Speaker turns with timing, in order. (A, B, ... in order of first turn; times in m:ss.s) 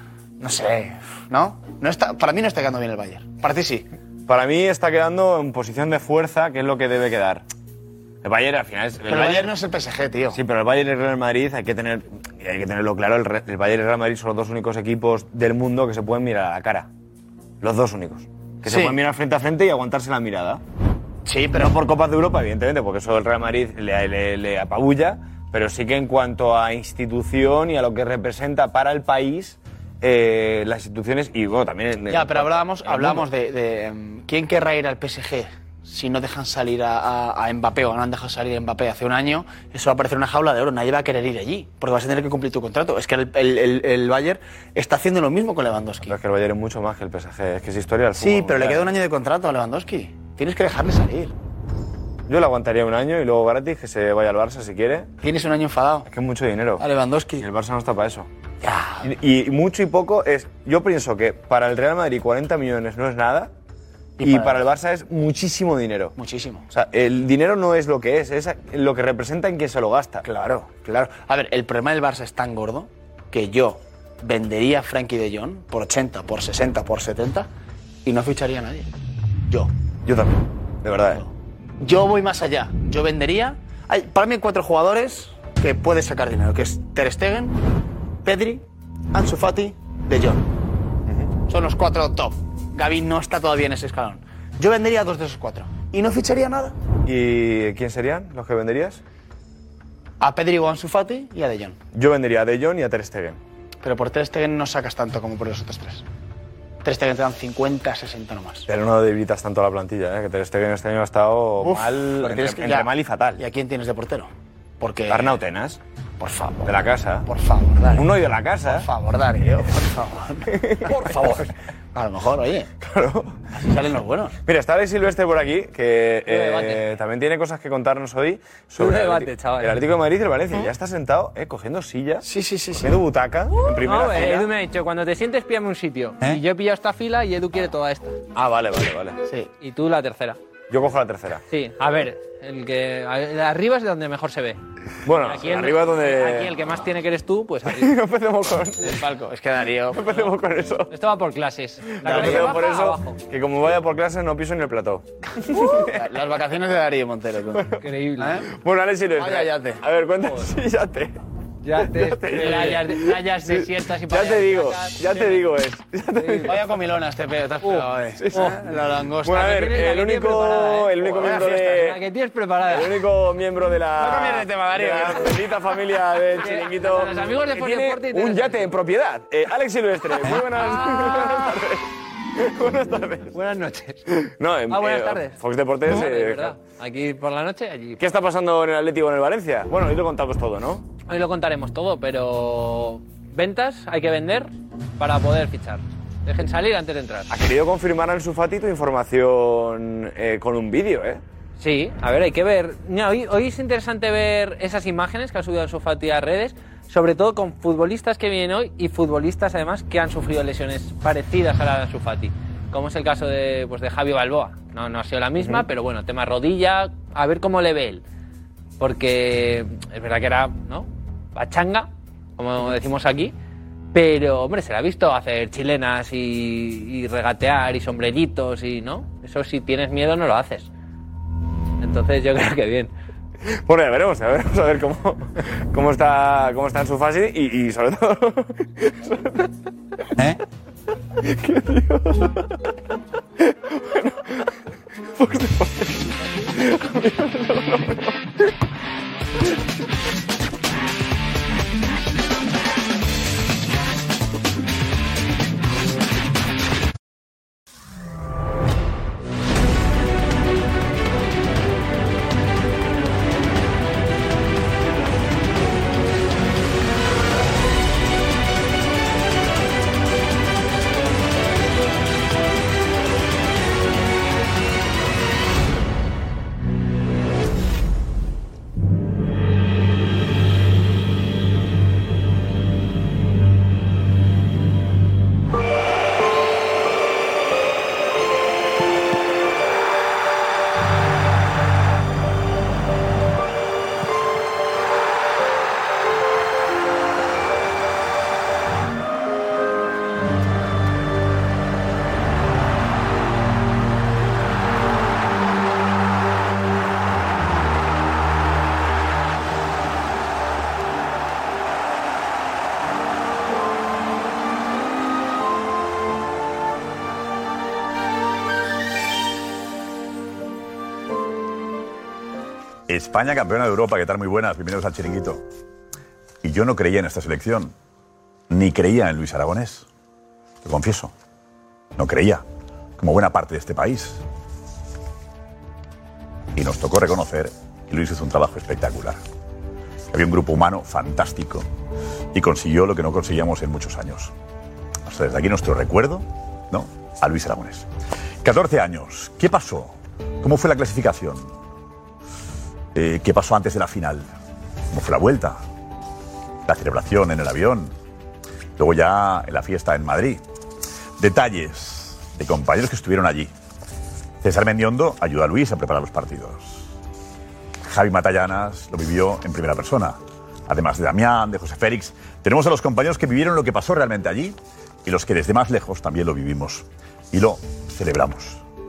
0:00.4-0:03.9 A
0:04.3-0:07.4 B
0:08.2-0:09.5 B
0:09.1-0:10.4 A
0:10.3-0:16.9 B
0:17.6-0:20.6 B
0:18.6-0:19.0 A
0:21.2-0:21.7 A
0:21.5-0:33.3 B
0:32.1-0:46.2 A
0:46.1-0:48.9 B
0:48.2-0:51.3 A
0:52.3-0:55.1 B
0:55.2-0:56.1 A
0:56.1-0:56.8 B
0:56.8-0:57.4 A
0:57.4-0:58.3 B
0:58.6-0:59.1 A
0:59.0-1:03.5 B
1:04.2-1:04.6 A
1:04.2-1:06.1 B
1:06.2-1:06.6 A
1:06.7-1:10.2 B
1:10.2-1:17.5 A
1:18.0-1:18.9 A
1:20.0-1:21.2 B
1:21.0-1:27.6 A
1:28.2-1:30.4 A
1:31.5-1:36.8 A
1:37.0-1:39.0 B
1:40.2-1:41.8 A
1:41.9-1:43.4 B
1:43.8-1:46.0 A
1:46.8-1:48.6 A
1:48.7-1:53.4 B
1:51.6-1:54.3 A
1:54.8-1:55.3 A
1:55.1-1:55.8 B
1:56.2-1:58.1 A
1:56.6-1:57.3 B
1:57.9-1:58.9 B
1:58.6-2:02.7 A
2:00.5-2:01.4 B
2:02.8-2:03.4 B
2:03.5-2:04.3 A
2:04.4-2:12.2 B
2:06.3-2:06.8 C
2:08.7-2:09.8 C
2:12.2-2:12.9 A
2:12.8-2:14.5 B
2:13.6-2:18.1 C
2:18.3-2:19.2 B
2:19.6-2:20.4 C
2:20.7-2:21.4 B
2:21.5-2:24.6 C
2:25.0-2:26.6 B
2:25.2-2:27.9 C
2:27.7-2:28.9 B
2:28.8-2:30.2 A
2:29.9-2:30.9 B
2:30.9-2:33.2 C
2:31.9-2:36.0 B
2:32.0-2:32.5 A
2:35.9-2:37.7 A
2:37.5-2:37.8 B
2:37.8-2:38.4 C
2:38.2-2:38.4 A
2:38.4-2:41.2 B
2:39.2-2:39.8 A
2:41.6-2:45.4 C
2:41.8-2:46.7 B
2:46.2-2:46.6 C
2:46.4-2:49.5 A
2:47.6-2:48.6 C
2:48.2-2:48.6 B
2:49.2-2:52.0 B
2:49.4-2:52.9 C
2:52.6-3:01.8 B
2:54.0-2:54.4 A
2:54.2-2:55.1 C
2:56.4-2:58.6 C
3:00.5-3:01.4 C
3:02.4-3:03.4 B
3:03.3-3:04.0 C
3:04.2-3:06.6 B
3:04.7-3:08.0 C
3:08.0-3:10.8 B
3:11.1-3:17.3 C
3:17.3-3:21.2 B
3:21.6-3:38.0 C
3:38.8-3:43.3 C
3:43.9-3:50.7 C
3:51.8-3:52.9 C
3:53.6-3:59.5 B
4:01.2-4:02.5 B
4:03.5-4:04.4 B
4:05.2-4:08.2 B
5:22.9-5:25.4 D
5:26.4-5:27.7 D
5:28.5-5:29.8 D
5:30.6-5:31.1 D
5:32.0-5:32.4 D
5:33.0-5:34.2 D
5:36.6-5:39.2 D
5:40.1-5:41.6 D
5:42.3-5:44.3 D
5:45.1-5:47.9 D
5:48.4-5:51.5 D
5:52.9-5:54.3 D
5:54.9-5:55.6 D
5:56.6-5:57.9 D
5:58.8-6:00.4 D
6:01.2-6:03.5 D
6:04.4-6:06.9 D
6:07.8-6:18.6 D